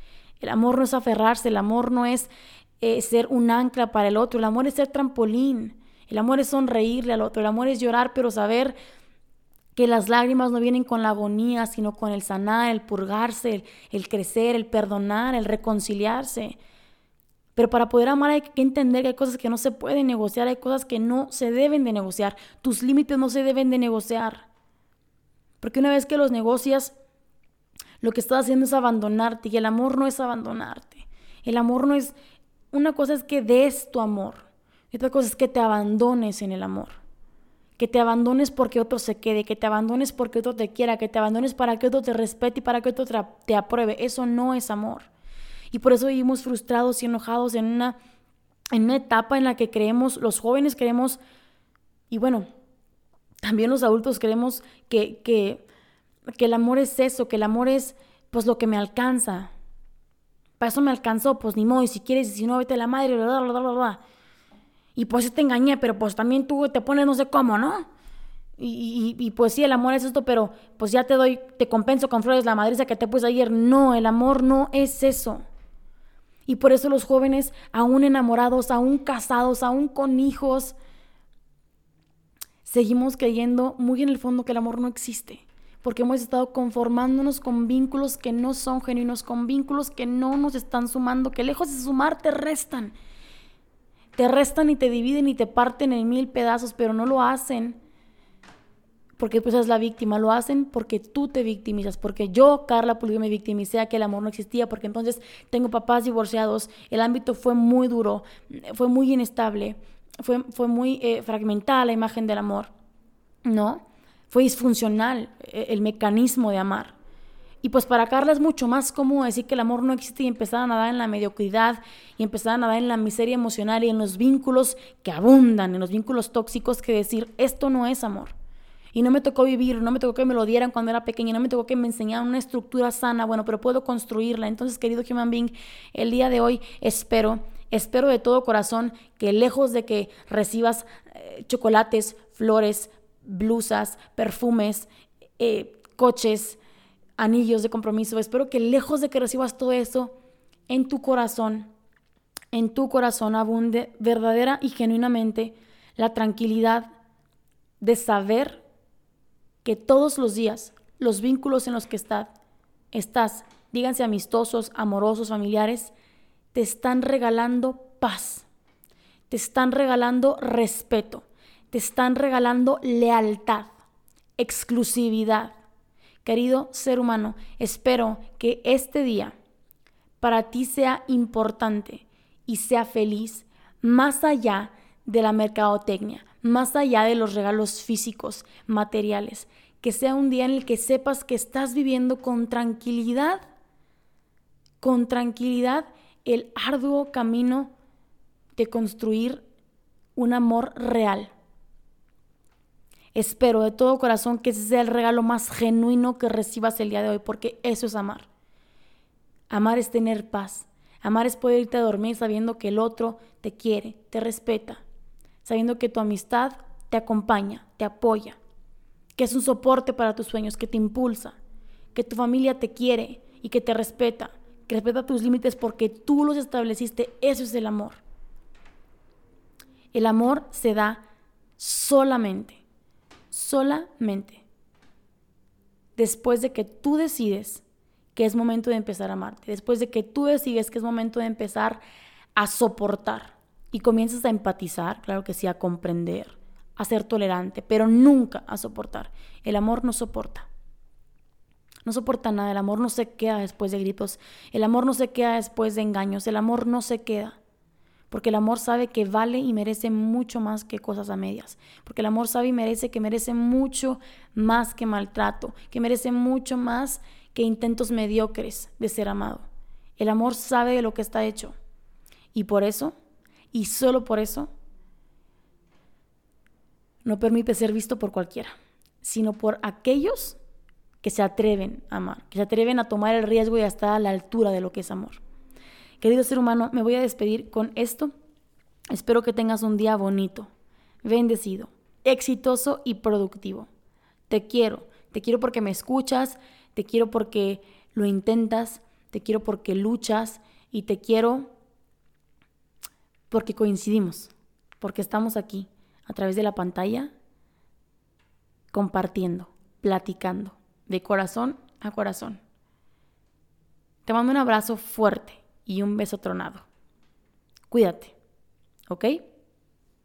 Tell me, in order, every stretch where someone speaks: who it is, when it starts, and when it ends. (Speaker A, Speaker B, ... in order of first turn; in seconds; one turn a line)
Speaker A: 0.4-8.7
Speaker A: 9.7-16.6
Speaker A: 17.6-24.5
Speaker A: 25.6-26.9
Speaker A: 28.0-32.1
Speaker A: 32.7-37.0
Speaker A: 37.8-45.1
Speaker A: 45.7-48.0
Speaker A: 48.7-51.2
Speaker A: 52.1-52.5
Speaker A: 53.4-55.6
Speaker A: 56.4-59.5
Speaker A: 60.6-64.0
Speaker A: 65.0-67.9
Speaker A: 68.6-75.4
Speaker A: 76.5-80.8
Speaker A: 82.6-92.9
Speaker A: 94.2-97.8
Speaker A: 99.2-112.7
Speaker A: 113.4-116.9
Speaker A: 117.6-128.3
Speaker A: 128.9-146.6
Speaker A: 147.2-150.1
Speaker A: 150.7-151.7
Speaker A: 152.5-156.9
Speaker A: 157.8-158.6
Speaker A: 159.6-162.3
Speaker A: 162.9-165.9
Speaker A: 166.5-168.4
Speaker A: 169.3-173.7
Speaker A: 174.4-175.6
Speaker A: 176.2-179.4
Speaker A: 180.2-193.4
Speaker A: 194.8-197.7
Speaker A: 198.6-199.4
Speaker A: 200.2-201.3
Speaker A: 203.1-208.3
Speaker A: 209.5-214.8
Speaker A: 215.4-218.4
Speaker A: 219.2-221.4
Speaker A: 221.9-228.0
Speaker A: 229.9-231.0
Speaker A: 231.6-232.6
Speaker A: 233.3-234.4
Speaker A: 236.0-237.6
Speaker A: 238.1-241.8
Speaker A: 242.4-250.5
Speaker A: 251.8-257.4
Speaker A: 258.1-269.4
Speaker A: 270.0-271.6
Speaker A: 272.3-272.9
Speaker A: 273.5-274.5
Speaker A: 277.0-280.4
Speaker A: 281.0-285.2
Speaker A: 286.0-288.1
Speaker A: 288.9-290.5
Speaker A: 291.0-293.7
Speaker A: 294.3-301.5
Speaker A: 303.3-307.1
Speaker A: 308.7-312.4
Speaker A: 314.0-316.6
Speaker A: 317.7-318.1
Speaker A: 318.9-319.2